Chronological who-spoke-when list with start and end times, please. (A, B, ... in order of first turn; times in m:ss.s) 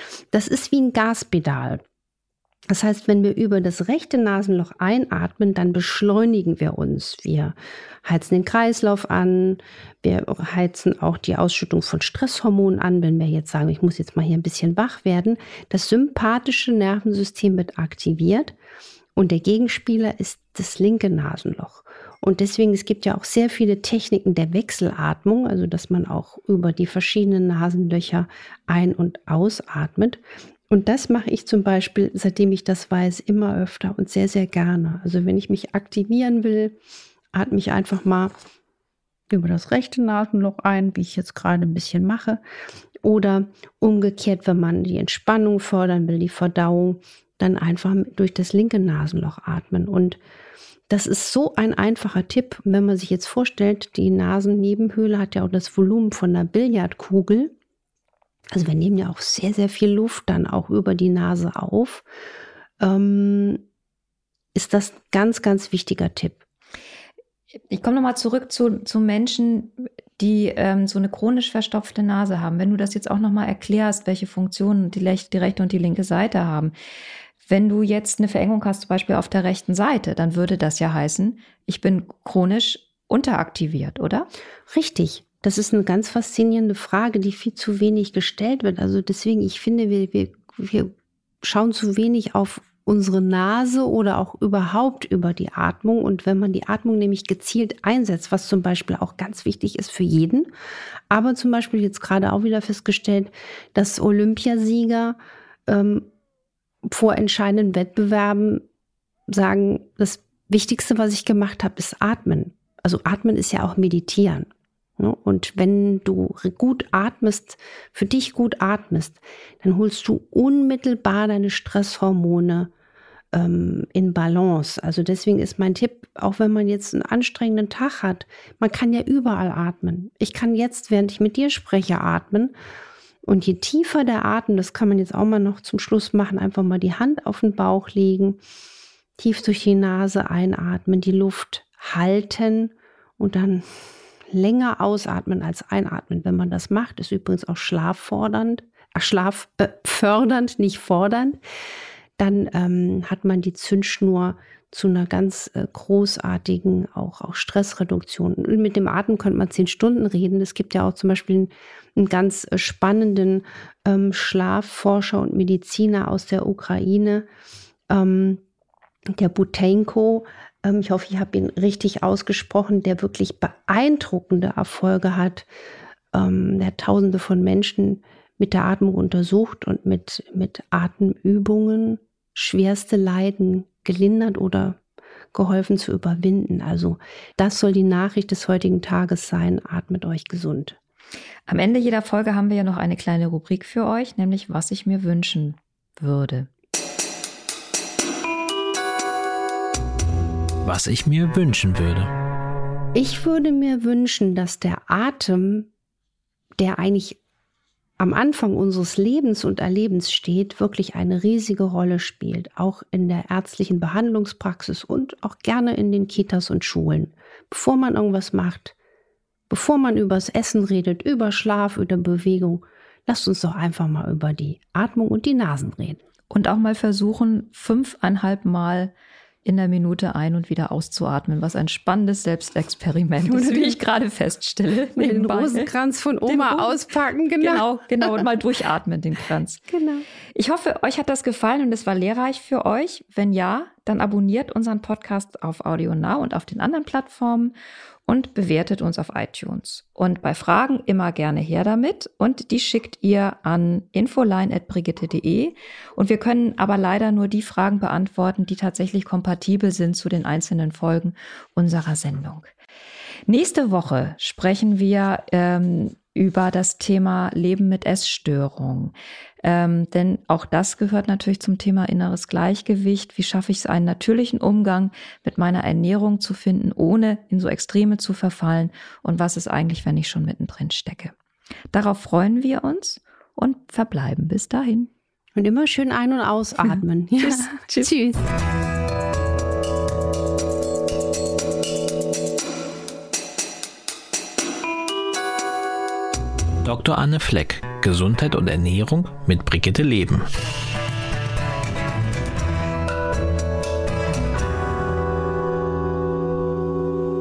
0:00.3-0:01.8 A
0:02.7-0:18.6 A
0:19.2-0:36.8 A
0:37.3-0:38.3 A
0:39.3-0:42.4 A
0:43.0-0:50.2 A
0:50.9-0:57.5 A
0:58.5-1:02.0 A
1:02.8-1:03.6 A
1:04.6-1:06.4 A
1:07.7-1:16.7 B
1:17.4-1:24.3 B
1:24.7-1:30.9 A
1:31.4-1:40.5 A
1:41.1-1:46.1 A
1:46.9-1:48.6 A
1:49.3-2:02.7 A
2:03.3-2:12.5 A
2:13.3-2:18.4 A
2:19.2-2:23.6 A
2:24.3-2:31.4 A
2:32.2-2:47.3 A
2:47.9-2:48.4 A
2:49.1-2:55.5 A
2:56.1-3:04.8 A
3:05.3-3:10.8 A
3:11.5-3:16.5 B
3:20.6-3:22.1 C
3:22.9-3:25.7 A
3:26.6-3:27.2 A
3:28.0-3:38.8 A
3:39.5-3:46.0 A
3:46.3-3:48.9 B
3:49.4-3:55.7 B
3:53.3-3:53.8 A
3:55.0-3:58.3 A
3:56.3-3:56.8 B
3:57.4-3:59.6 B
3:59.7-4:00.1 A
4:00.3-4:07.5 B
4:08.1-4:22.5 B
4:23.3-4:41.1 B
4:41.7-4:44.9 B
4:45.4-4:48.2 A
4:46.6-4:47.9 B
4:56.6-5:00.3 C